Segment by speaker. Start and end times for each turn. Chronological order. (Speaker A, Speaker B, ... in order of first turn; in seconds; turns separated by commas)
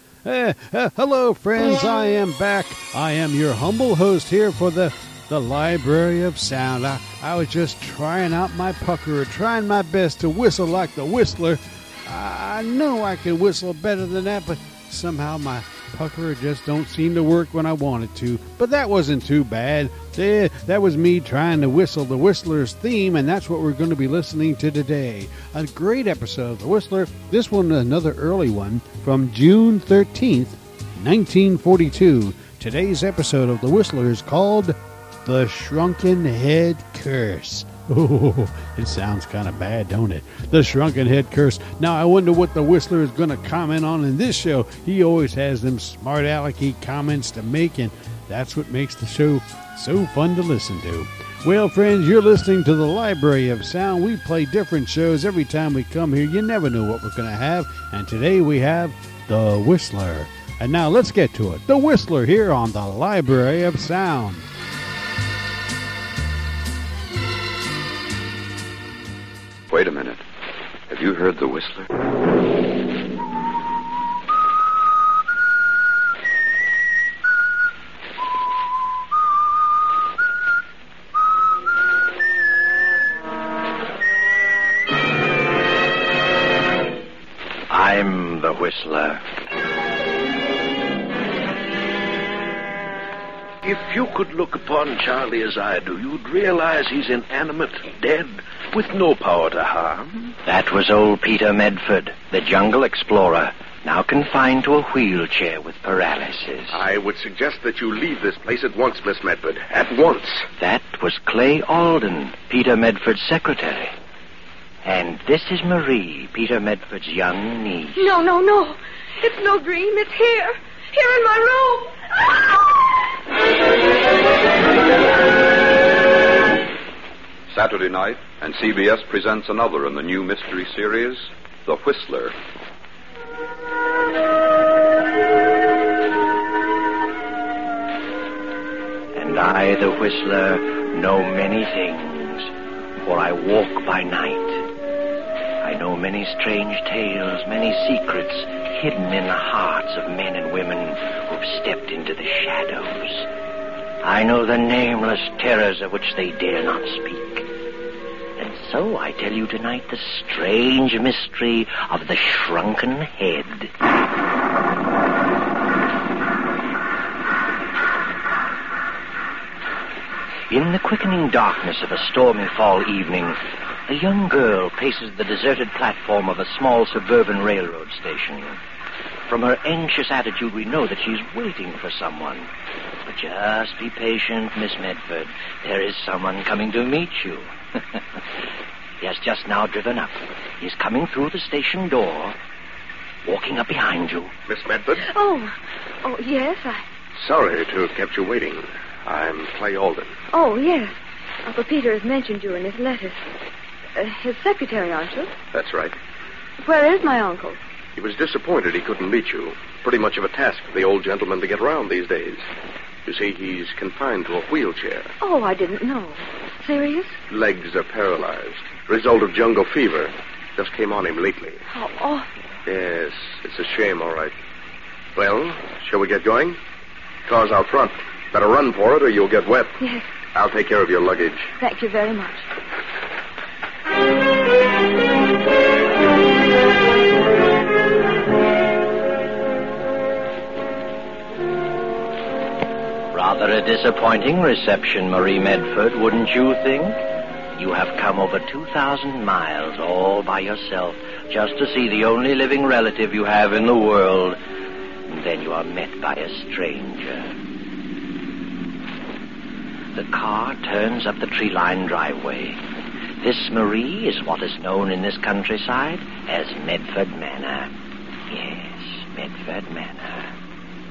Speaker A: 0.2-64.5, Speaker B: 69.7-70.2, Speaker B: 70.9-71.9, Speaker C: 87.7-89.3, Speaker D: 93.6-100.4, Speaker C: 100.5-106.8, Speaker E: 106.7-110.5, Speaker C: 110.6-114.0, Speaker C: 114.8-118.1, Speaker F: 118.0-122.7, Speaker B: 127.5-132.3, Speaker C: 139.1-144.6, Speaker C: 145.6-153.3, Speaker C: 154.0-157.5, Speaker C: 158.4-163.7, Speaker C: 170.5-178.6, Speaker C: 179.3-182.5, Speaker C: 183.0-187.5, Speaker C: 189.0-192.4, Speaker C: 193.2-194.3, Speaker E: 194.5-195.0, Speaker F: 195.0-196.8, Speaker E: 197.2-200.2, Speaker F: 200.3-203.3, Speaker F: 204.0-205.3, Speaker E: 205.5-206.0, Speaker F: 206.6-207.6, Speaker E: 208.0-212.4, Speaker E: 213.1-215.1, Speaker F: 215.2-217.2, Speaker E: 217.3-221.6, Speaker F: 221.7-222.3, Speaker E: 222.7-224.3, Speaker E: 225.2-226.6, Speaker E: 227.3-229.8, Speaker F: 229.8-230.1, Speaker E: 230.3-231.4, Speaker F: 231.6-232.4, Speaker C: 243.1-247.0, Speaker C: 247.6-254.4, Speaker C: 255.1-257.4, Speaker C: 259.9-262.6, Speaker C: 263.2-267.7, Speaker C: 268.3-270.3